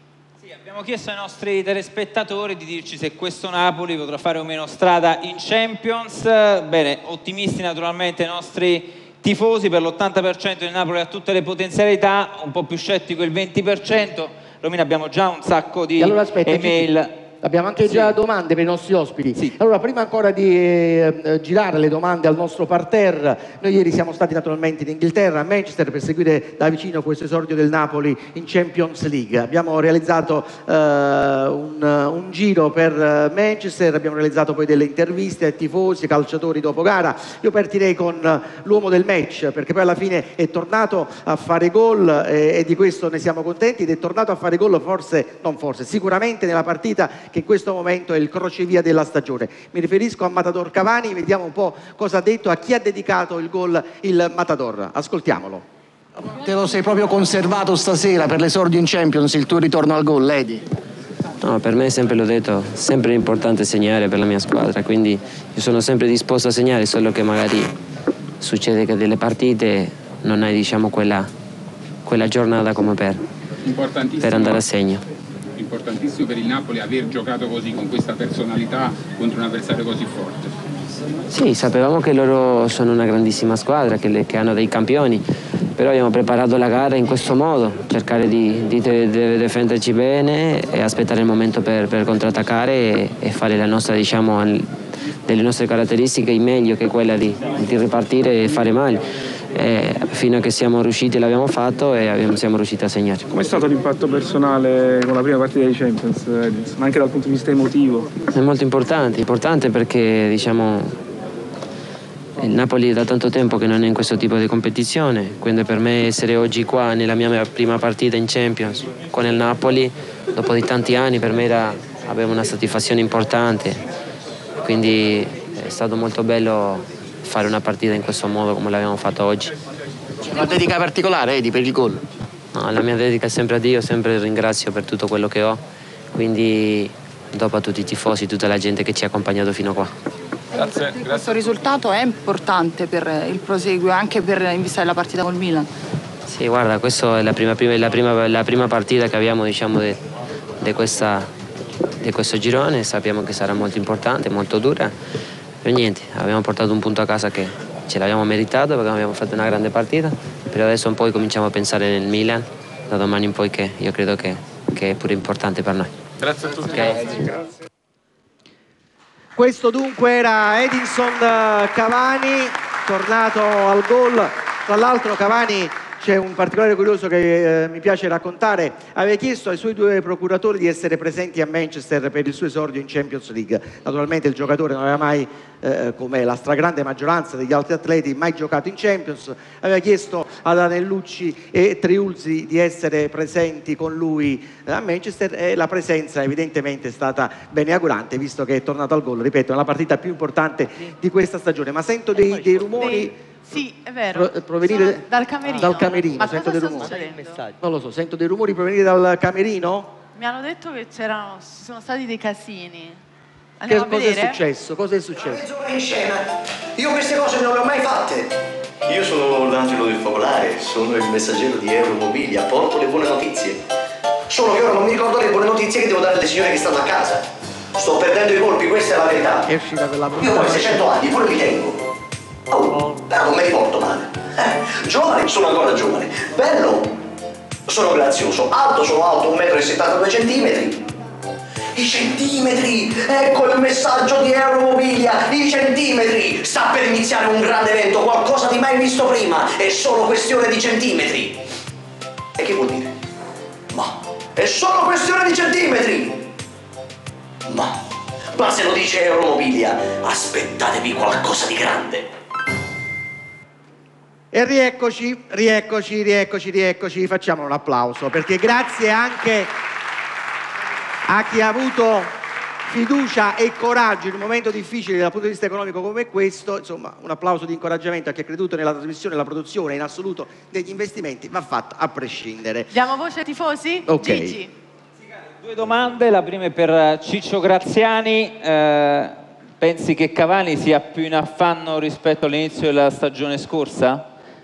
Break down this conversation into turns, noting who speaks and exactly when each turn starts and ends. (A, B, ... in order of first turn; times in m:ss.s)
0:00.5-0:17.2 A
0:16.0-0:16.9 B
0:17.4-0:55.6 B
0:56.2-1:00.6 C
1:01.4-1:07.7 D
1:08.4-1:11.3 D
1:12.0-1:13.2 D
1:13.6-1:14.7 E
1:14.2-1:15.0 D
1:15.6-1:20.5 E
1:21.3-1:25.2 D
1:25.8-1:34.6 D
1:35.3-1:39.0 D
1:39.6-1:43.3 D
1:43.3-1:48.1 F
1:48.3-1:50.9 D
1:52.4-2:03.8 D
2:04.6-2:09.5 D
2:10.3-2:12.0 C
2:12.5-2:15.6 D
2:16.2-2:19.9 D
2:20.6-2:21.2 E
2:20.6-2:25.7 G
2:26.3-2:30.0 D
2:30.6-2:31.3 D
2:32.0-2:34.9 D
2:35.6-2:45.9 D
2:46.3-2:47.2 E
2:46.6-2:47.1 D
2:49.4-3:23.1 B
3:22.8-3:27.4 H
3:24.1-3:27.0 B
3:27.6-3:29.9 B
3:30.2-3:33.0 H
3:33.6-3:34.4 H
3:33.7-3:35.5 B
3:35.2-3:38.3 I
3:38.8-3:43.6 I
3:44.3-3:49.5 I
3:49.5-3:50.9 B
3:50.2-3:51.8 I
3:52.5-3:56.9 I
3:57.7-4:00.8 I
4:01.7-4:11.4 I
4:12.4-4:13.0 I
4:13.7-4:16.3 I
4:17.5-4:17.8 I
4:18.3-4:22.1 I
4:24.3-4:29.5 B
4:31.1-4:32.1 B
4:32.7-4:42.7 B
4:42.7-4:44.5 H
4:43.9-4:44.4 B
4:45.4-4:54.0 A